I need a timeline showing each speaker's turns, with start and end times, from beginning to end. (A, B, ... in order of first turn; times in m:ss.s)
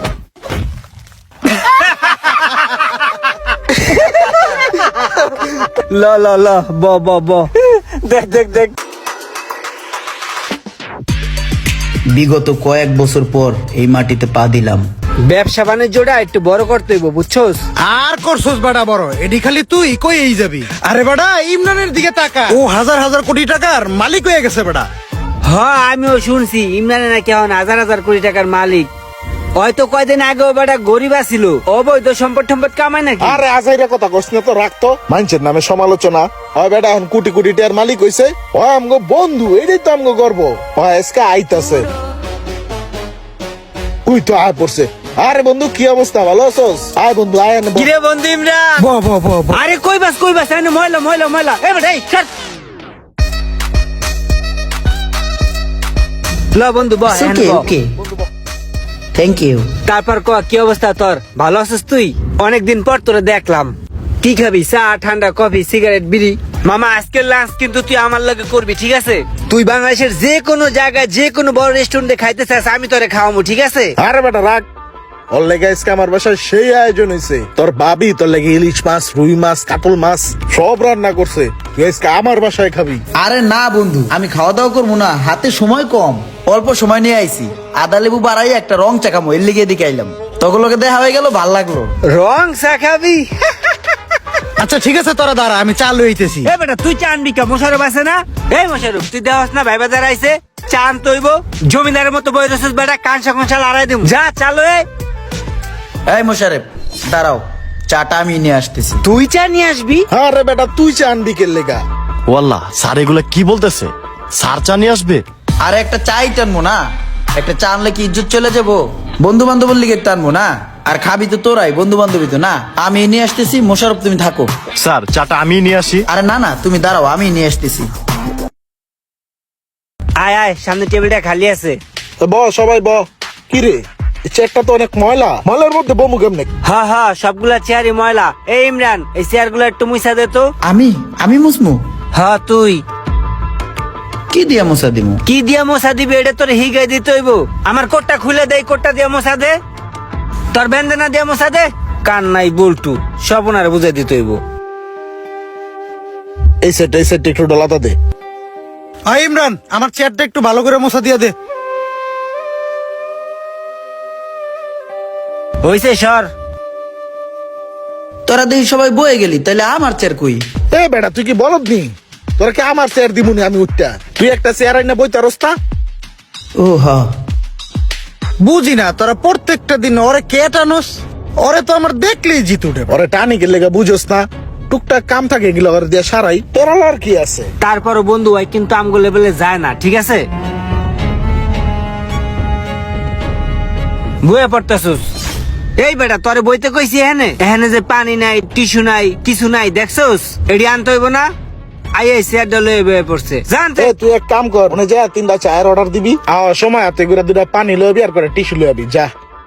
0:03.8-0:04.6 A
0:05.6-0:08.7 A
0:12.1-0:14.8 B
0:15.3-0:17.6 A
0:17.8-0:24.9 C
0:25.4-0:28.9 A
0:29.6-0:33.4 A
0:33.2-0:41.9 D
0:44.0-0:47.9 D
0:47.7-0:48.9 A
0:48.9-0:49.5 C
0:49.5-0:52.3 A
0:56.5-0:57.7 A
0:57.1-0:57.9 B
0:59.1-0:59.7 B
0:59.8-1:13.9 A
1:14.0-1:14.6 D
1:15.3-1:23.0 D
1:23.2-1:31.9 B
1:32.1-1:33.3 A
1:34.6-1:36.5 C
1:36.4-1:44.8 A
1:46.1-1:49.0 B
1:49.0-1:50.1 A
1:50.1-1:51.8 D
1:52.3-1:55.2 E
1:55.6-1:56.8 B
1:57.4-2:04.5 B
2:04.8-2:06.1 E
2:06.1-2:07.9 B
2:10.2-2:11.8 A
2:12.2-2:16.5 D
2:16.6-2:20.5 A
2:20.6-2:21.8 B
2:22.1-2:22.8 A
2:24.3-2:25.2 B
2:25.2-2:29.5 A
2:30.5-2:34.4 A
2:36.6-2:38.0 D
2:39.1-2:41.3 C
2:45.6-2:46.3 A
2:48.3-2:50.4 B
2:50.7-2:55.6 D
2:56.6-2:57.1 B
2:58.4-3:02.9 C
3:02.9-3:07.5 D
3:07.6-3:10.2 A
3:14.2-3:15.0 A
3:15.8-3:21.3 A
3:21.9-3:23.9 A
3:23.8-3:29.1 D